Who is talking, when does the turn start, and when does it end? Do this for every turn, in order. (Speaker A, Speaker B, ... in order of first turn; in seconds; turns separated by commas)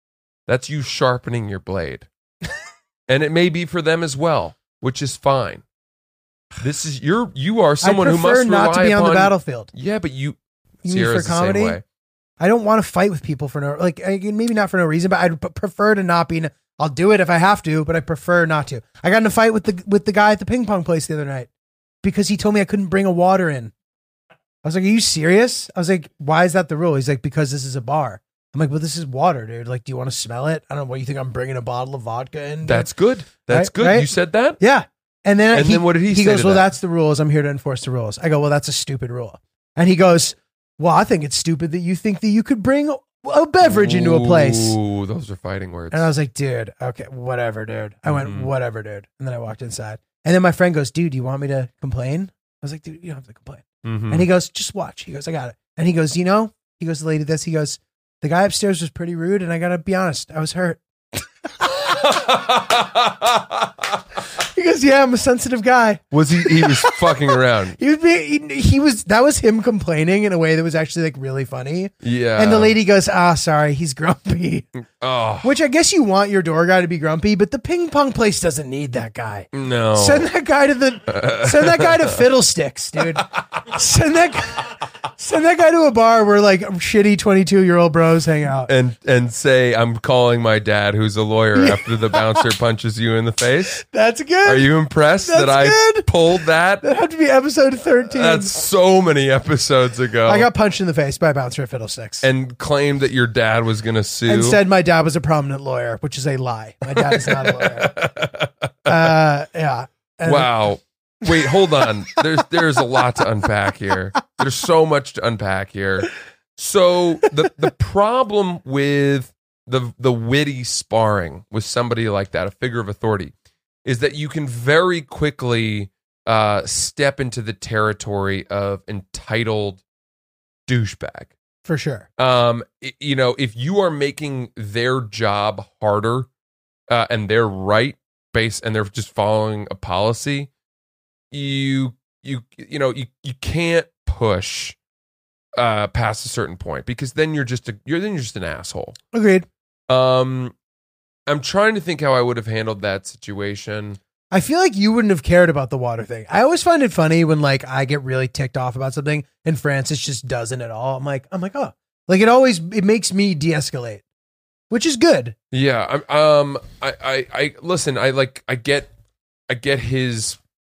Speaker A: 0.5-2.1, Speaker A: 3.1-5.6, Speaker A: 6.6-11.8, Speaker B: 7.8-9.7, Speaker B: 10.8-11.8, Speaker B: 12.4-21.5, Speaker B: 22.0-23.7, Speaker B: 24.6-32.9, Speaker A: 32.6-34.6, Speaker B: 33.5-44.8, Speaker A: 35.5-36.7, Speaker A: 43.6-46.1, Speaker B: 45.9-61.7, Speaker A: 48.0-48.5, Speaker A: 53.8-54.3, Speaker A: 61.9-63.8, Speaker B: 64.4-74.7, Speaker A: 66.1-67.8, Speaker A: 72.0-72.8, Speaker A: 75.0-75.5, Speaker B: 75.4-88.7, Speaker A: 79.5-80.3, Speaker A: 81.1-82.2, Speaker A: 83.0-83.2, Speaker A: 88.7-93.8, Speaker B: 91.5-92.2, Speaker B: 93.7-96.1, Speaker A: 94.4-96.8, Speaker B: 96.8-98.5, Speaker A: 98.1-100.5, Speaker B: 100.2-102.3, Speaker A: 102.2-104.6, Speaker B: 104.2-107.9, Speaker A: 106.9-109.2, Speaker B: 108.8-110.6, Speaker A: 110.2-123.3, Speaker A: 123.8-129.8, Speaker A: 130.7-131.3, Speaker B: 131.6-132.1, Speaker A: 132.2-136.3, Speaker A: 136.9-140.5, Speaker A: 141.3-144.8, Speaker A: 145.5-149.0, Speaker B: 149.1-149.4, Speaker A: 149.9-150.5, Speaker A: 151.3-154.0, Speaker B: 154.3-164.0, Speaker B: 164.7-165.3, Speaker A: 165.5-168.9, Speaker A: 169.5-170.4